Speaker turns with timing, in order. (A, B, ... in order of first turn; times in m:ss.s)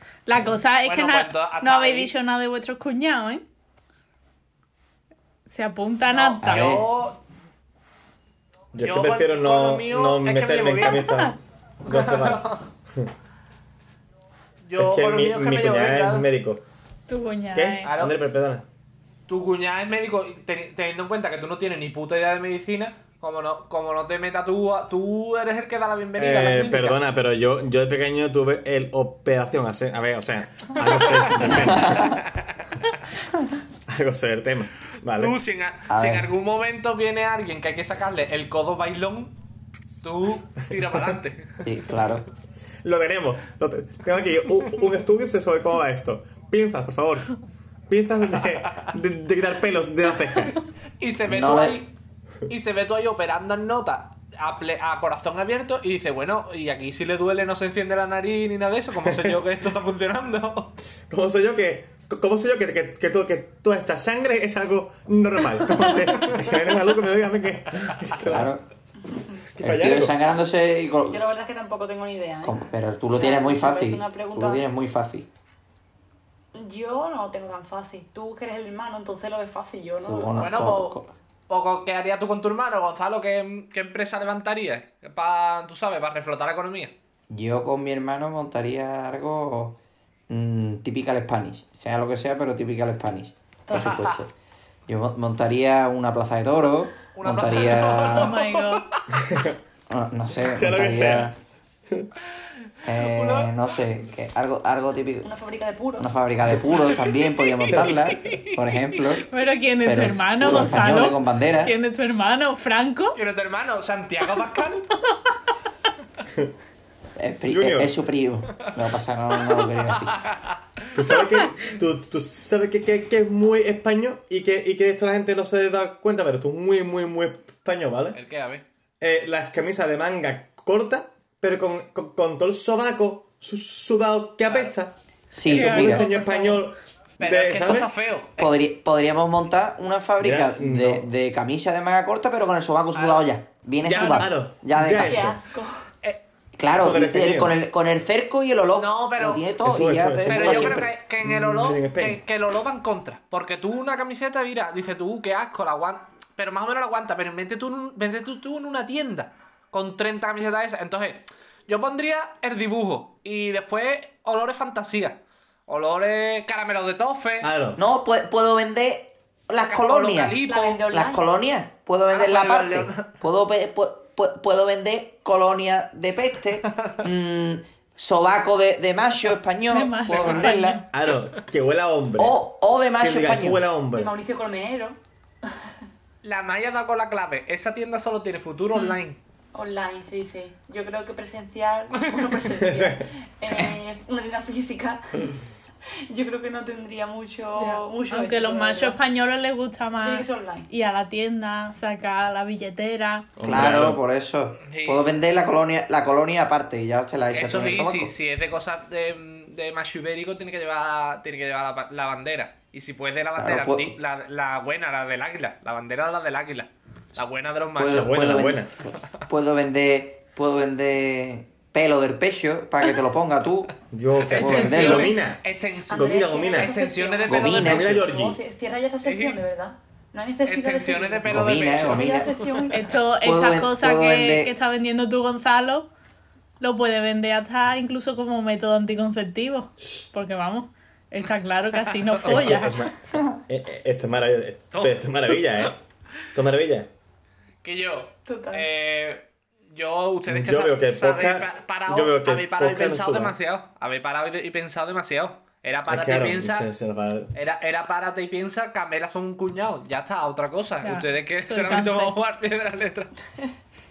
0:00.2-0:03.4 A
0:00.8-0:02.1 B
0:05.4-0:06.8 A
0:06.0-0:07.2 B
0:06.4-0:06.9 C
0:08.7-0:13.1 D
0:08.8-0:11.2 B
0:10.9-0:11.3 A
0:11.9-0:12.6 B
0:14.6-0:16.3 B
0:14.8-0:16.6 D
0:17.1-0:17.9 A
0:17.5-0:18.6 D
0:17.8-0:18.2 B
0:19.3-0:27.0 B
0:26.2-0:32.2 D
0:30.9-0:32.9 B
0:31.7-0:32.1 C
0:33.9-0:35.4 D
0:35.2-0:39.4 B
0:35.9-0:36.3 C
0:40.0-0:41.6 B
0:41.6-0:42.2 C
0:42.8-0:47.4 D
0:47.9-0:50.6 D
0:51.0-0:51.9 B
0:51.3-0:51.8 C
0:52.5-1:00.8 B
0:59.1-0:59.4 D
1:01.1-1:08.5 D
1:08.2-1:08.6 C
1:09.6-1:10.1 D
1:09.6-1:11.2 C
1:11.1-1:14.6 E
1:12.4-1:15.3 C
1:16.5-1:20.4 E
1:20.0-1:21.1 C
1:20.4-1:21.0 B
1:21.5-1:26.9 B
1:27.3-1:29.8 C
1:30.3-1:34.3 C
1:33.7-1:34.2 B
1:34.9-1:38.4 C
1:37.1-1:39.1 B
1:37.8-1:38.9 A
1:39.1-1:39.6 D
1:39.9-1:41.4 C
1:40.4-1:41.3 D
1:42.8-1:45.3 C
1:42.9-1:43.6 B
1:45.2-1:46.1 E
1:46.0-1:49.3 C
1:46.7-1:49.0 B
1:47.7-1:48.1 D
1:49.3-1:53.2 A
1:49.8-1:51.7 C
1:53.1-1:54.9 B
1:57.2-2:00.2 C
1:57.5-1:57.9 D
2:00.0-2:00.6 B
2:00.9-2:08.2 D
2:08.1-2:08.6 B
2:09.0-2:14.9 D
2:14.4-2:14.7 B
2:15.3-2:16.1 C
2:15.4-2:16.6 A
2:15.5-2:17.9 D
2:17.2-2:18.6 B
2:18.4-2:25.4 C
2:20.2-2:21.0 D
2:22.9-2:23.2 B
2:23.8-2:24.3 B
2:23.9-2:25.4 D
2:25.0-2:25.8 E
2:26.6-2:30.9 C
2:26.8-2:27.5 D
2:28.8-2:29.5 B
2:29.6-2:32.2 D
2:30.2-2:47.5 B
2:47.4-2:47.8 D
2:47.8-3:00.8 C
2:49.7-2:50.9 B
2:50.5-2:51.3 E
2:52.1-2:53.1 B
2:56.7-2:57.0 B
2:59.7-3:00.9 A
3:00.9-3:02.4 D
3:02.2-3:03.6 C
3:03.0-3:04.1 D
3:03.9-3:05.5 E
3:06.2-3:09.2 B
3:09.5-3:15.4 E
3:12.6-3:13.1 D
3:15.9-3:19.0 E
3:17.6-3:23.3 A
3:19.9-3:20.7 E
3:23.4-3:24.0 D
3:23.4-3:28.1 C
3:24.6-3:25.1 B
3:27.3-3:38.1 B
3:33.4-3:33.9 C
3:37.8-3:43.7 C
3:37.9-3:38.7 D
3:43.9-3:46.7 D
3:44.2-3:48.1 B
3:44.3-3:45.2 C
3:44.6-3:45.1 E
3:45.9-3:52.9 E
3:47.3-3:48.0 C
3:47.5-3:48.4 D
3:49.0-3:49.4 B
3:50.4-3:52.5 B
3:51.2-3:52.3 C
3:52.7-3:55.9 A
3:53.2-3:54.5 C
3:56.6-4:02.9 A
4:01.8-4:02.6 B
4:02.2-4:05.8 D
4:04.7-4:05.4 B
4:06.3-4:06.9 D
4:07.6-4:16.7 B
4:08.3-4:08.7 E
4:10.2-4:13.3 D
4:15.9-4:17.3 D
4:17.3-4:23.1 B
4:20.8-4:22.2 A